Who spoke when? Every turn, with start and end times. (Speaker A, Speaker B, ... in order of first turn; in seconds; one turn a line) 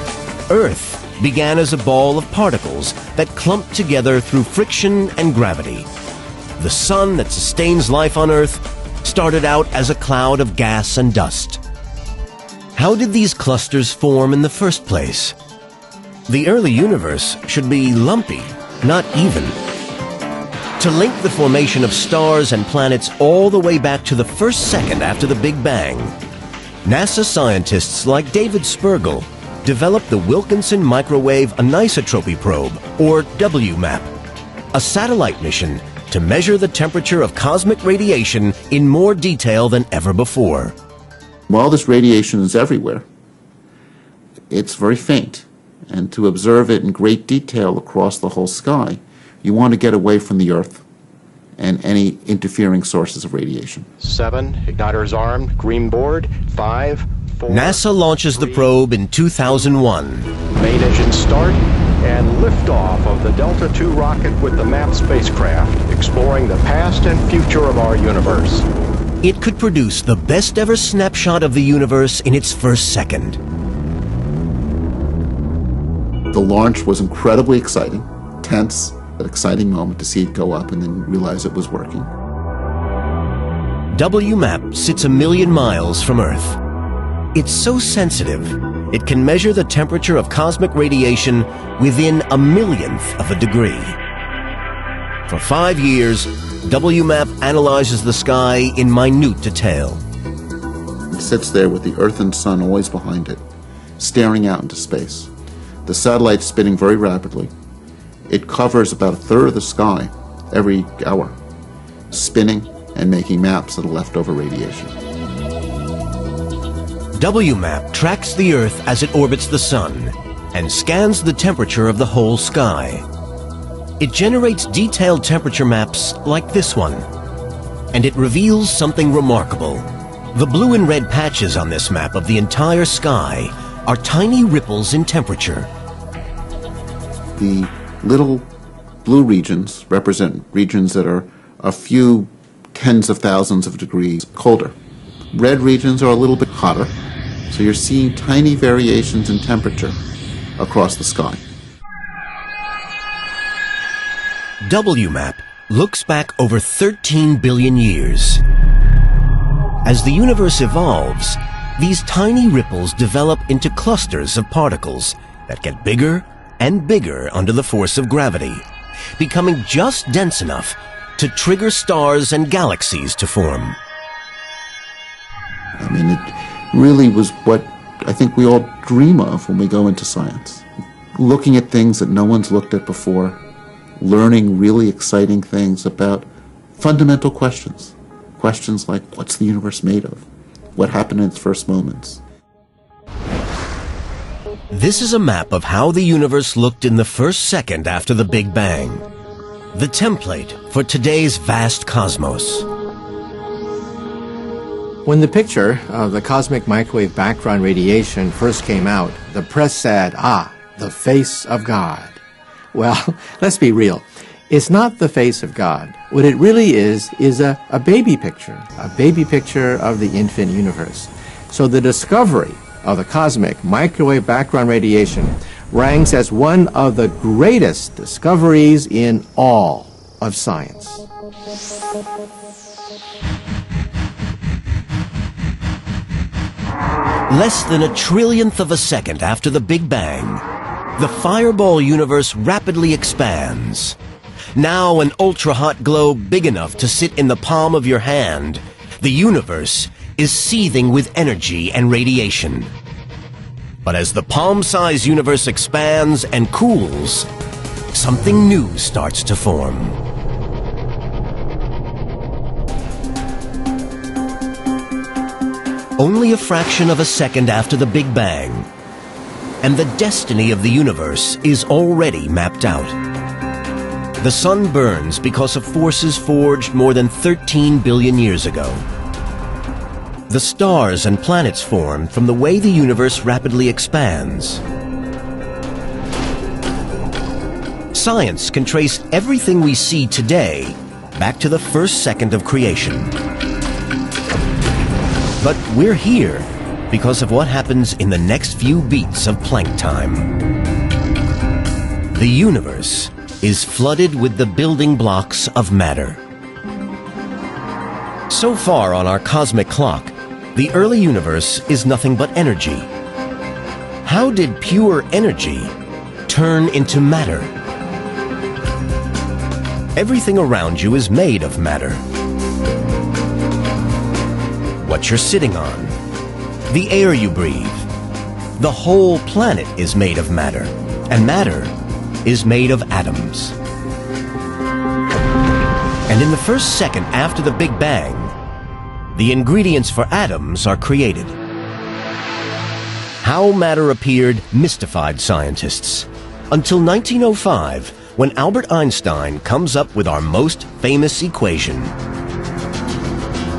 Speaker A: 0.5-5.9
Speaker A: 6.6-11.6
Speaker A: 12.8-15.4
Speaker A: 16.3-19.6
Speaker A: 20.8-26.1
Speaker A: 26.9-34.1
Speaker A: 34.7-40.8
Speaker B: 41.5-43.1
Speaker B: 44.5-50.8
Speaker B: 51.6-53.9
Speaker C: 54.0-57.8
Speaker A: 57.5-60.3
Speaker C: 58.4-58.7
Speaker C: 60.5-68.7
Speaker A: 69.2-73.4
Speaker B: 76.3-82.1
Speaker A: 83.9-86.6
Speaker A: 87.3-94.0
Speaker A: 95.3-100.0
Speaker B: 101.1-103.4
Speaker B: 104.0-105.3
Speaker B: 105.9-107.5
Speaker B: 108.3-111.3
Speaker B: 112.1-115.0
Speaker A: 117.2-123.0
Speaker A: 124.0-127.1
Speaker A: 127.9-135.7
Speaker B: 137.4-138.5
Speaker B: 139.0-144.8
Speaker B: 145.3-146.9
Speaker B: 147.5-150.0
Speaker B: 150.6-151.4
Speaker A: 154.6-158.4
Speaker A: 159.8-168.7
Speaker A: 169.2-173.8
Speaker B: 175.8-183.4
Speaker B: 184.0-192.2
Speaker A: 194.7-199.1
Speaker A: 199.7-202.7
Speaker D: 205.1-212.2
Speaker D: 212.7-231.1
Speaker A: 237.3-240.4
Speaker A: 241.0-244.0
Speaker A: 244.6-252.7
Speaker A: 253.8-257.3
Speaker A: 257.9-260.0
Speaker A: 266.0-268.7
Speaker A: 269.6-273.0
Speaker A: 274.2-278.9
Speaker A: 280.3-284.6
Speaker A: 287.9-293.1
Speaker A: 295.4-300.3
Speaker A: 302.1-306.2
Speaker A: 308.3-312.9
Speaker A: 314.1-315.7
Speaker A: 316.3-317.5
Speaker A: 319.9-322.0
Speaker A: 324.8-326.0
Speaker A: 326.7-327.9
Speaker A: 328.6-331.7
Speaker A: 332.2-333.6
Speaker A: 336.1-338.3
Speaker A: 339.1-341.4
Speaker A: 343.2-351.9